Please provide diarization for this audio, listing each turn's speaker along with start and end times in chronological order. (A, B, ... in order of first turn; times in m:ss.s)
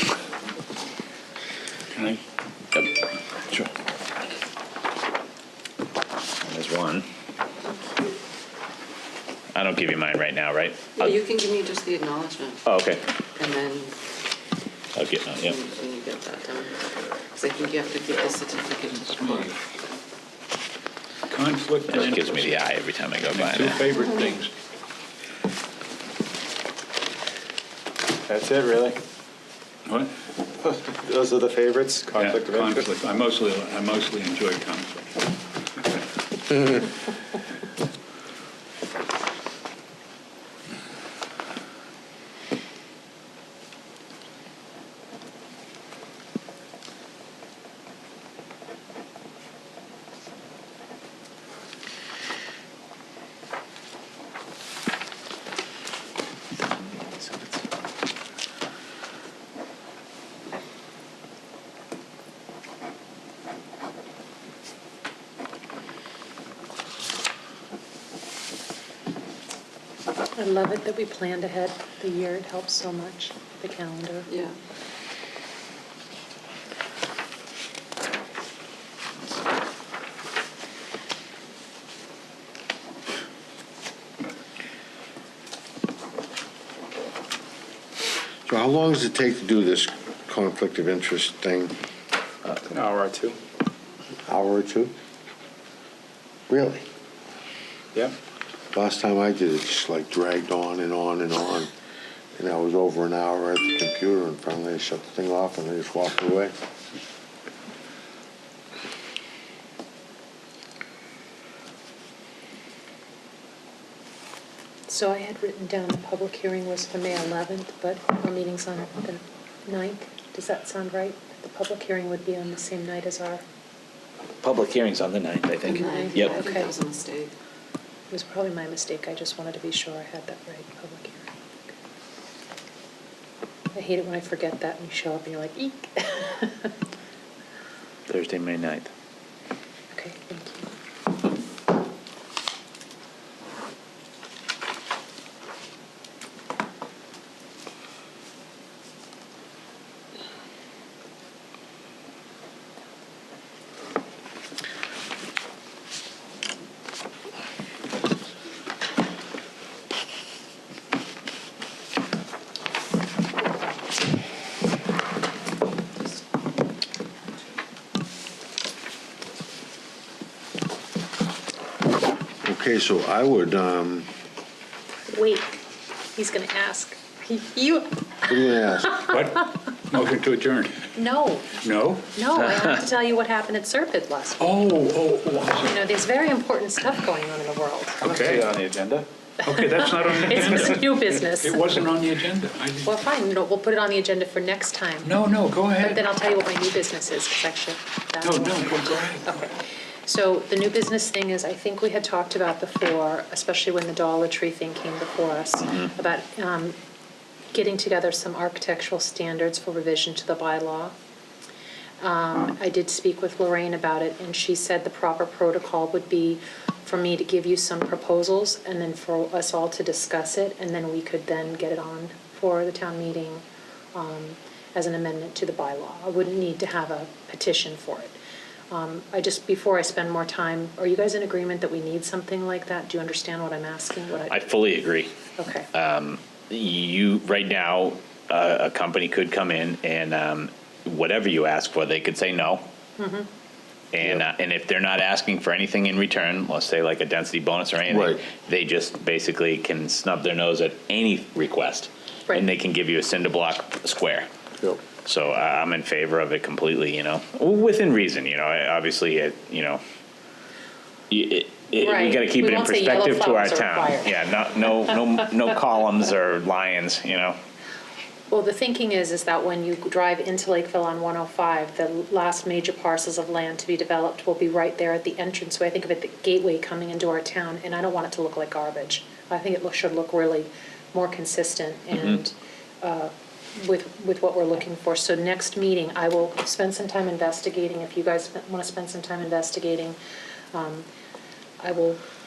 0:01.9-0:02.2 A
0:06.4-0:07.0 B
0:09.5-0:11.2 B
0:11.0-0:12.6 C
0:12.6-0:13.0 B
0:13.4-0:13.9 C
0:15.0-0:15.6 B
0:15.4-0:16.7 C
0:17.3-0:19.5 C
0:18.9-0:19.6 A
0:21.3-0:22.6 A
0:21.9-0:23.8 B
0:23.3-0:24.5 A
0:28.3-0:29.0 D
0:29.8-0:30.1 A
0:30.8-0:32.9 D
0:32.1-0:35.1 A
0:56.8-0:57.4 B
1:10.4-1:14.3 E
1:28.4-1:31.8 F
1:32.7-1:33.4 D
1:34.3-1:34.9 F
1:36.5-1:36.8 F
1:38.7-1:41.7 F
1:42.4-1:46.5 F
1:54.9-2:03.4 E
2:04.4-2:06.3 B
2:05.7-2:07.3 C
2:05.7-2:06.7 E
2:08.1-2:11.3 E
2:13.7-2:16.7 E
2:18.1-2:18.9 B
2:19.9-2:20.7 E
2:52.4-2:54.1 F
2:55.1-2:55.6 E
2:56.1-2:58.3 E
2:58.3-2:59.0 F
2:59.0-3:00.9 A
3:00.9-3:01.6 E
3:01.6-3:02.1 A
3:02.1-3:04.6 E
3:04.4-3:05.7 A
3:05.6-3:08.0 E
3:08.0-3:08.5 A
3:08.0-3:09.1 D
3:09.4-3:12.9 A
3:09.5-3:11.7 E
3:12.8-3:15.1 E
3:15.0-3:16.0 A
3:15.8-3:26.8 E
3:18.2-3:19.4 A
3:27.5-3:30.9 E
3:32.0-3:48.2 E
3:48.7-3:54.4 E
3:54.3-3:55.1 B
3:55.4-3:55.7 E
3:55.7-4:02.6 B
4:03.0-4:03.3 E
4:03.9-4:14.3 B
4:07.9-4:08.2 F
4:15.0-4:19.8 B
4:21.1-4:27.4 B
4:21.7-4:24.2 E
4:28.3-4:50.0 E
4:50.5-4:50.9 E
4:51.6-4:52.0 E